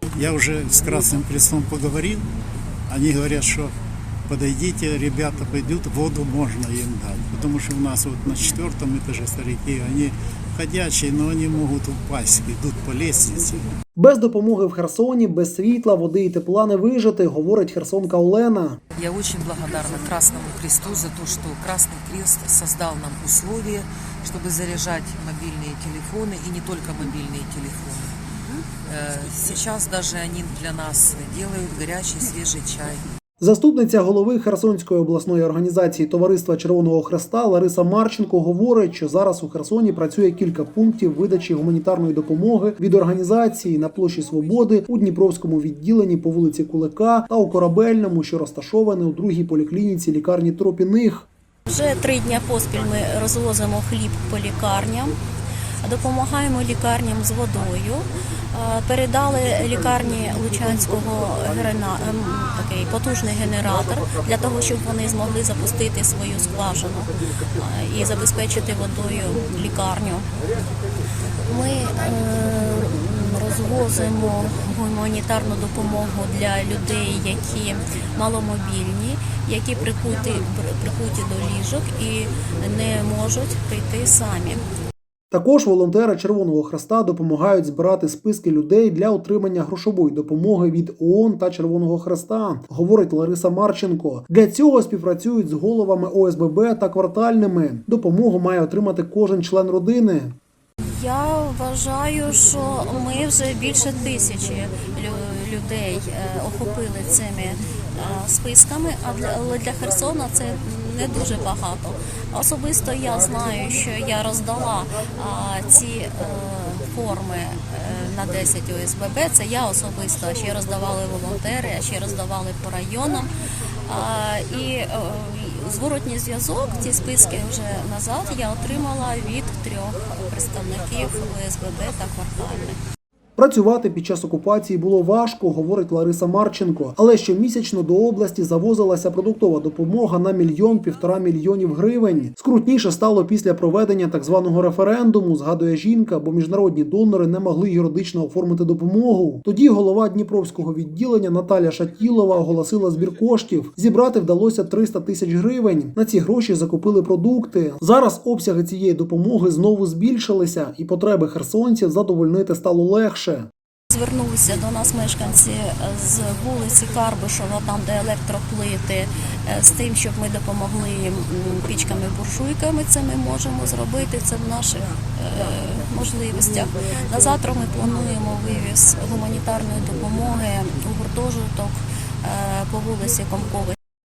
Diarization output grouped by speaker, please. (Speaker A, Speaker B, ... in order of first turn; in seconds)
Speaker A: 0.2-2.2, 2.9-3.7, 4.3-13.7
Speaker B: 14.0-18.8, 33.4-51.3, 85.3-100.3, 133.4-163.5
Speaker C: 18.9-28.2, 28.9-33.0
Speaker D: 51.7-55.2, 55.8-70.3, 71.5-84.6, 100.8-123.3, 123.9-132.8, 163.9-183.8